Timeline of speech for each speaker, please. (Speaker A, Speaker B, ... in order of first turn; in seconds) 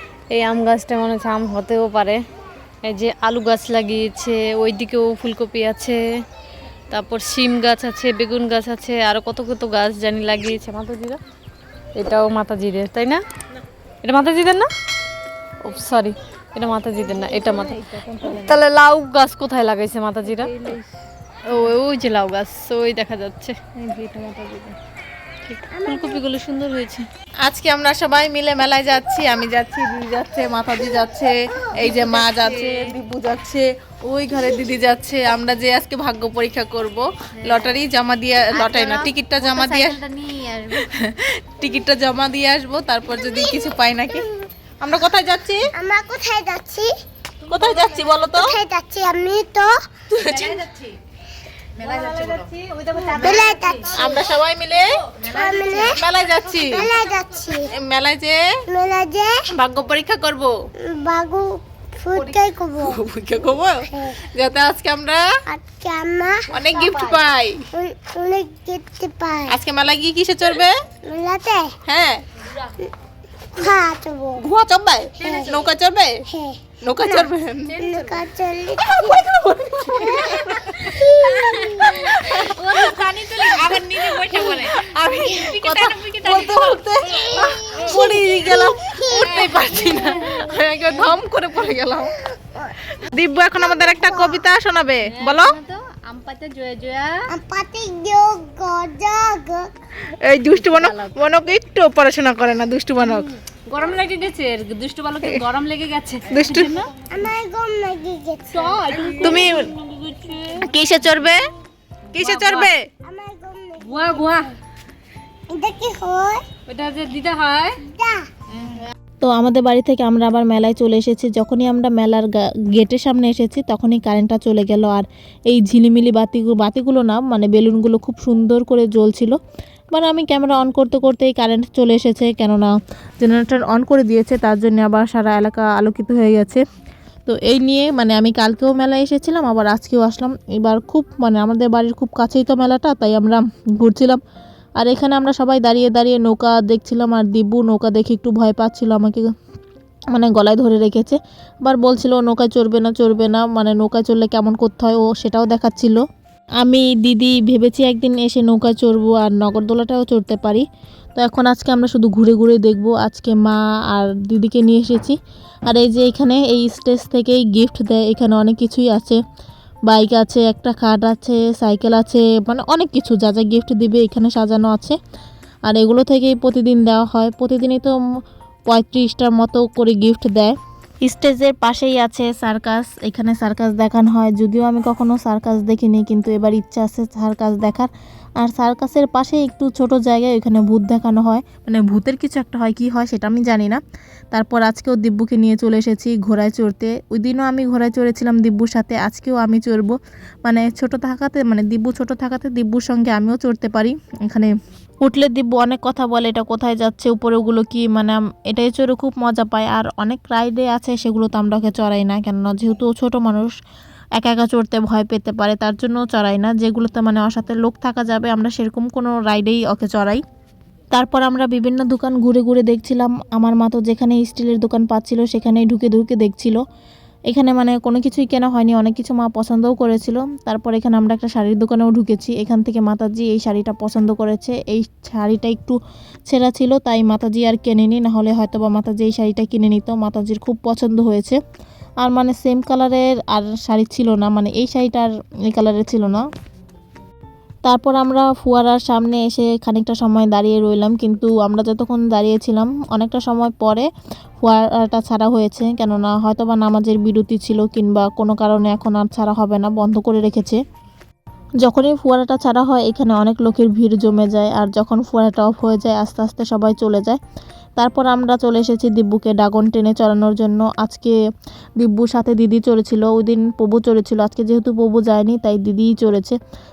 Speaker A: 0.3-2.2, 2.8-6.0, 6.9-11.2, 12.0-13.2, 14.0-14.7, 15.6-20.8, 21.5-23.6, 25.4-27.1, 31.9-32.9, 37.4-37.7, 38.5-40.8, 47.6-47.9, 50.3-51.0, 51.8-53.9, 55.1-55.8, 75.2-75.7, 77.8-78.1, 82.6-86.8, 89.1-90.3, 95.1-97.3, 100.5-101.1, 103.1-106.9, 108.5-110.7, 112.1-112.7, 113.8-114.5, 116.7-117.8
Speaker B: 17.1-18.6, 20.3-20.8, 23.8-24.8, 27.4-40.0, 40.7-44.3, 44.8-45.7, 47.5-48.5, 50.1-50.6, 51.8-52.4, 53.0-54.9, 55.7-56.9, 57.7-58.4, 59.5-60.5, 62.1-65.3, 66.5-67.6, 69.5-70.8, 71.9-72.2, 74.4-76.2, 76.8-77.8, 78.8-92.1, 93.0-95.6, 100.2-103.3, 106.3-106.8, 109.1-109.7, 110.6-111.4, 112.1-112.8, 119.2-129.3, 129.9-136.6, 137.3-144.2, 144.8-149.2, 150.1-156.0, 156.6-160.6, 161.2-165.1, 165.7-169.2, 169.9-175.0, 175.7-177.9, 178.7-187.9, 188.4-193.8, 194.3-199.9, 200.4-204.5, 205.0-213.5, 214.2-220.2, 220.9-226.6, 227.3-235.8, 236.3-241.4, 242.0-246.2, 247.7-253.9, 254.4-260.6, 261.6-267.2, 267.8-271.1, 271.8-276.4
Speaker C: 25.7-26.3, 43.1-44.3, 45.8-46.9, 48.3-49.7, 53.2-54.3, 55.2-56.0, 56.7-57.7, 58.7-59.4, 60.8-63.0, 63.9-64.2, 65.5-66.5, 67.8-69.6, 71.0-71.8, 73.5-74.4, 75.2-75.6, 76.3-79.2, 80.0-82.5, 83.7-85.6, 87.0-90.6, 92.3-92.7, 93.6-94.5, 97.3-99.7, 107.0-108.9, 113.0-114.1, 115.5-116.4, 117.9-118.2